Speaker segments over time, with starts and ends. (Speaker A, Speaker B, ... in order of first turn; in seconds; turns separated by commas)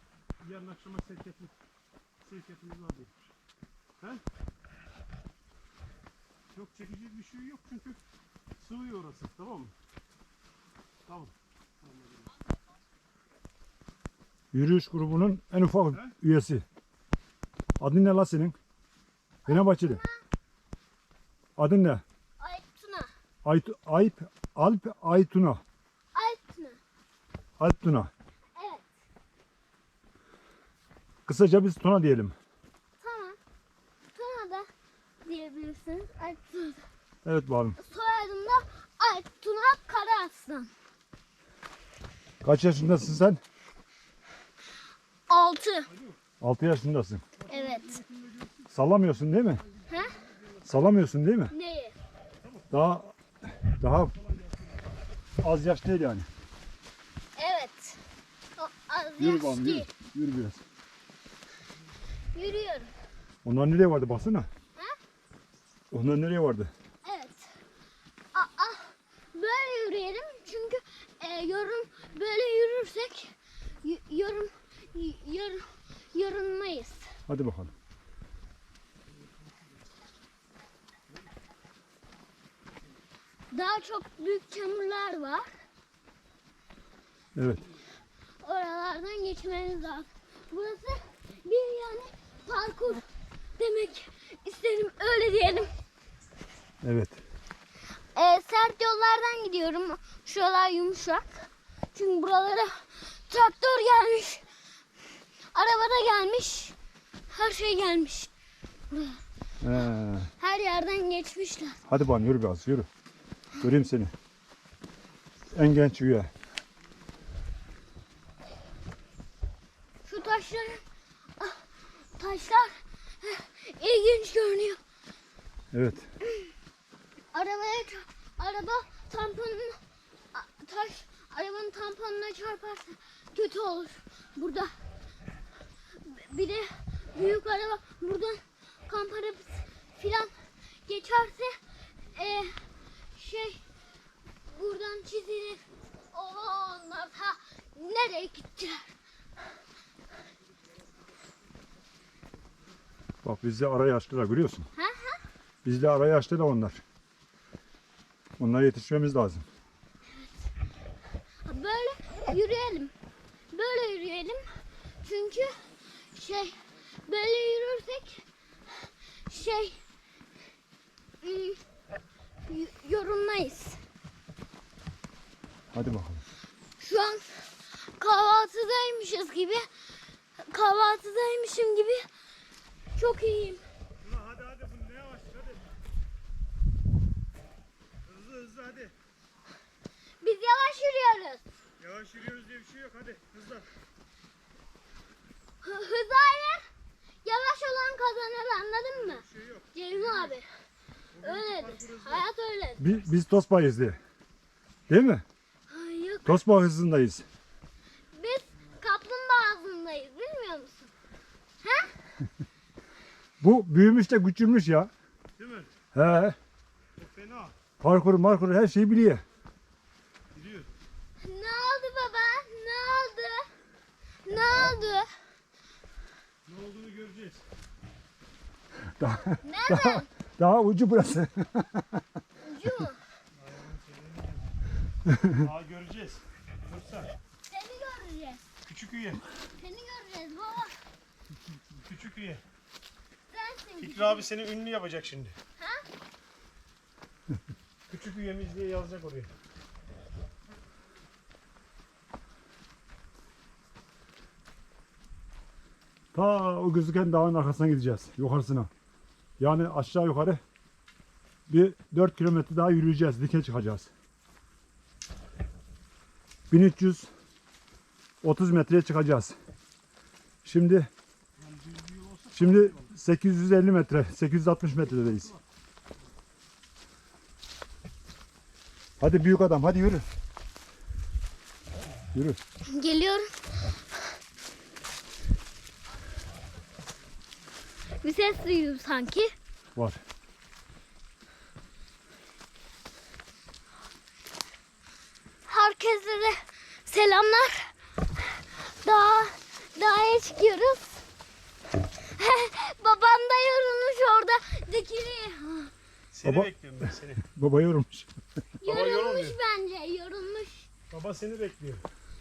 Speaker A: 0.4-1.5, Speaker A: 2.2-3.2, Speaker A: 6.5-8.0, Speaker A: 8.6-9.7, Speaker A: 11.1-12.3, Speaker B: 14.5-16.6, Speaker B: 17.8-18.6, Speaker C: 19.4-20.2, Speaker B: 19.5-20.0, Speaker B: 21.6-22.0, Speaker C: 22.4-23.1, Speaker B: 23.4-25.6, Speaker C: 26.1-26.8, Speaker B: 27.6-28.1, Speaker C: 28.6-28.9, Speaker B: 31.2-32.4, Speaker C: 33.0-33.4, Speaker C: 34.1-34.7, Speaker C: 35.2-36.9, Speaker B: 37.2-37.8, Speaker C: 37.8-40.7, Speaker B: 42.4-43.4, Speaker C: 45.3-45.9, Speaker A: 45.9-46.2, Speaker B: 46.4-47.2, Speaker A: 47.4-48.7, Speaker C: 47.5-48.0, Speaker B: 48.7-49.6, Speaker A: 49.7-50.7, Speaker C: 49.9-50.1, Speaker B: 50.6-51.5, Speaker C: 51.5-51.9, Speaker A: 52.4-52.7, Speaker B: 52.7-54.1, Speaker A: 54.1-54.7, Speaker B: 55.4-56.3, Speaker C: 57.4-58.0, Speaker C: 58.5-59.9, Speaker B: 59.2-60.6, Speaker C: 62.3-62.9, Speaker B: 63.4-64.5, Speaker B: 65.9-66.7, Speaker C: 67.0-67.5, Speaker C: 68.3-75.6, Speaker C: 76.1-77.1, Speaker B: 77.3-77.7, Speaker C: 83.5-85.5, Speaker B: 87.3-87.6, Speaker C: 88.4-93.0, Speaker C: 93.6-95.7, Speaker B: 96.8-97.2, Speaker C: 98.1-104.5, Speaker C: 105.5-106.7, Speaker C: 107.3-108.3, Speaker C: 108.9-109.2, Speaker B: 109.6-110.3, Speaker C: 110.4-111.8, Speaker B: 111.9-112.9, Speaker B: 113.6-114.1, Speaker B: 115.5-116.3, Speaker C: 120.0-120.8, Speaker C: 121.4-124.8, Speaker B: 125.7-126.1, Speaker C: 126.2-126.5, Speaker C: 127.3-129.8, Speaker C: 130.3-134.7, Speaker C: 135.9-140.3, Speaker C: 140.8-143.6, Speaker C: 144.5-148.9, Speaker B: 153.2-154.7, Speaker C: 154.8-155.2, Speaker B: 155.6-156.8, Speaker B: 158.4-159.4, Speaker C: 160.1-160.5, Speaker C: 161.4-162.9, Speaker C: 163.5-164.4, Speaker C: 165.0-169.8, Speaker C: 171.2-171.6, Speaker C: 172.5-173.8, Speaker B: 175.7-176.2, Speaker C: 176.8-179.7, Speaker C: 180.4-182.1, Speaker C: 183.0-183.6, Speaker A: 184.0-185.6, Speaker A: 188.0-188.9, Speaker C: 190.2-191.4, Speaker A: 191.8-193.7, Speaker C: 195.6-196.6, Speaker C: 197.2-200.5, Speaker A: 198.9-200.3, Speaker A: 201.2-202.2, Speaker C: 201.2-202.9, Speaker B: 202.8-204.0, Speaker B: 204.9-205.2, Speaker C: 205.7-206.4, Speaker B: 206.2-207.2, Speaker C: 208.1-210.9, Speaker C: 211.6-211.9, Speaker B: 213.4-214.9, Speaker A: 215.4-215.7, Speaker B: 215.9-216.4, Speaker A: 217.0-217.5, Speaker B: 217.8-219.2, Speaker A: 220.3-220.7, Speaker C: 221.2-223.5, Speaker C: 224.2-225.1, Speaker A: 226.4-227.4, Speaker B: 228.8-232.0, Speaker C: 229.0-230.1, Speaker C: 232.4-233.0, Speaker A: 233.3-234.5, Speaker A: 235.3-237.1, Speaker C: 237.5-238.4, Speaker A: 238.6-239.2, Speaker C: 239.6-240.8, Speaker A: 241.8-242.4, Speaker C: 243.3-244.3, Speaker A: 243.8-245.3, Speaker C: 245.6-245.8, Speaker A: 247.9-249.3, Speaker B: 256.1-258.7, Speaker B: 259.4-260.4, Speaker B: 261.5-263.9, Speaker B: 266.5-267.1, Speaker B: 268.2-269.4, Speaker B: 270.4-270.9, Speaker A: 271.4-272.9, Speaker B: 272.3-275.3, Speaker A: 274.9-275.4, Speaker B: 279.0-280.0, Speaker C: 282.7-283.3, Speaker C: 288.0-289.3, Speaker B: 289.8-290.0, Speaker C: 295.5-301.0, Speaker C: 301.7-305.7, Speaker A: 306.1-307.2, Speaker B: 306.2-306.5, Speaker B: 307.2-308.1, Speaker C: 308.6-310.7, Speaker A: 308.6-309.4, Speaker A: 310.9-311.8